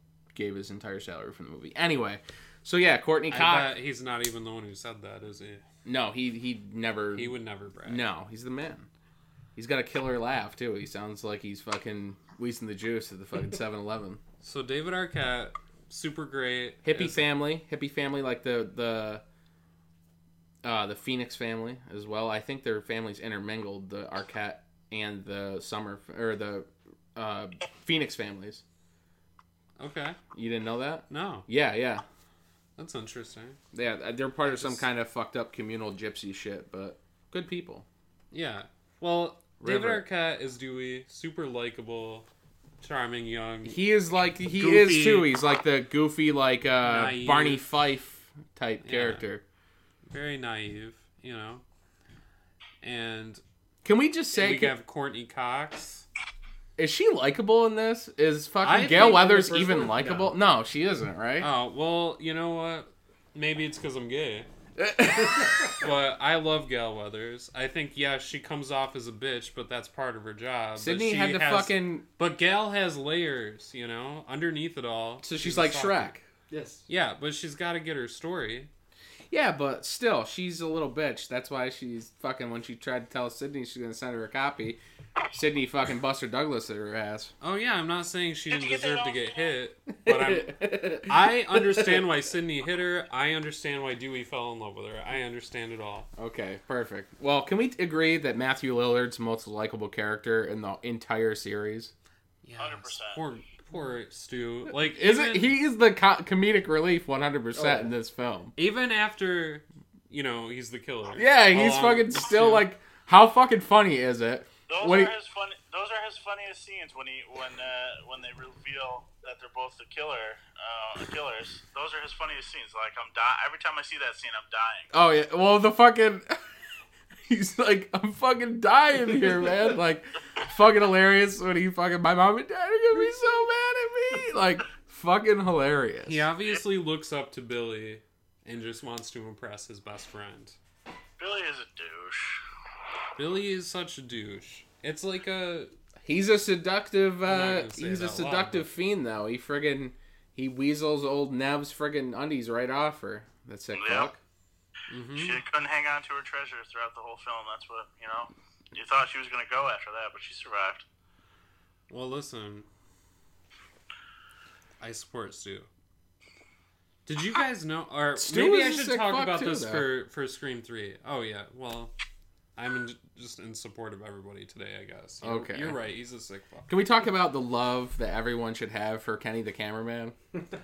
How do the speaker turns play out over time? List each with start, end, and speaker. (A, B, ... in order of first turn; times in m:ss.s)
0:00.3-0:03.7 A
0:03.3-0:05.6 B
0:05.8-0:08.9 A
0:07.1-0:08.1 B
0:09.6-0:14.2 A
0:14.4-0:17.2 B
0:16.8-0:19.2 A
0:20.6-0:28.6 A
0:29.8-0:30.2 B
0:30.3-0:32.0 A
0:31.1-0:31.5 B
0:32.8-0:33.6 B
0:33.7-0:37.9 A
0:34.5-0:34.8 B
0:38.3-0:42.3 B
0:39.6-0:40.0 A
0:42.8-0:43.8 B
0:43.6-0:49.4 A
0:44.5-0:45.3 B
0:46.8-0:47.6 B
0:48.8-0:49.2 B
0:50.1-0:51.6 B
0:52.8-0:53.4 B
0:53.8-0:54.7 A
0:54.3-0:56.1 B
0:56.8-1:01.5 A
0:58.6-0:59.7 B
0:58.9-1:00.3 C
1:01.4-1:04.5 B
1:04.8-1:05.8 A
1:05.6-1:16.1 B
1:10.8-1:12.1 A
1:15.2-1:16.2 A
1:16.5-1:16.9 C
1:16.9-1:18.7 B
1:19.3-1:24.8 A
1:25.3-1:27.3 A
1:27.4-1:36.1 B
1:28.5-1:29.5 D
1:30.0-1:32.1 A
1:36.2-1:41.9 A
1:42.4-1:45.6 B
1:42.6-1:43.2 D
1:44.9-1:48.5 A
1:47.5-1:47.9 C
1:48.6-1:52.7 B
1:51.1-1:55.1 A
1:54.7-2:04.9 D
2:04.9-2:06.5 A
2:07.3-2:16.3 A
2:16.0-2:20.6 B
2:21.2-2:22.4 D
2:23.2-2:25.8 B
2:26.0-2:34.2 A
2:27.2-2:28.7 B
2:33.7-2:34.1 D
2:34.9-2:35.4 B
2:35.2-2:40.8 D
2:41.9-2:42.7 B
2:44.8-2:45.7 B
2:47.1-2:52.0 B
2:48.2-2:49.9 A
2:52.6-2:56.7 B
2:55.2-2:55.8 A
2:56.7-3:00.1 A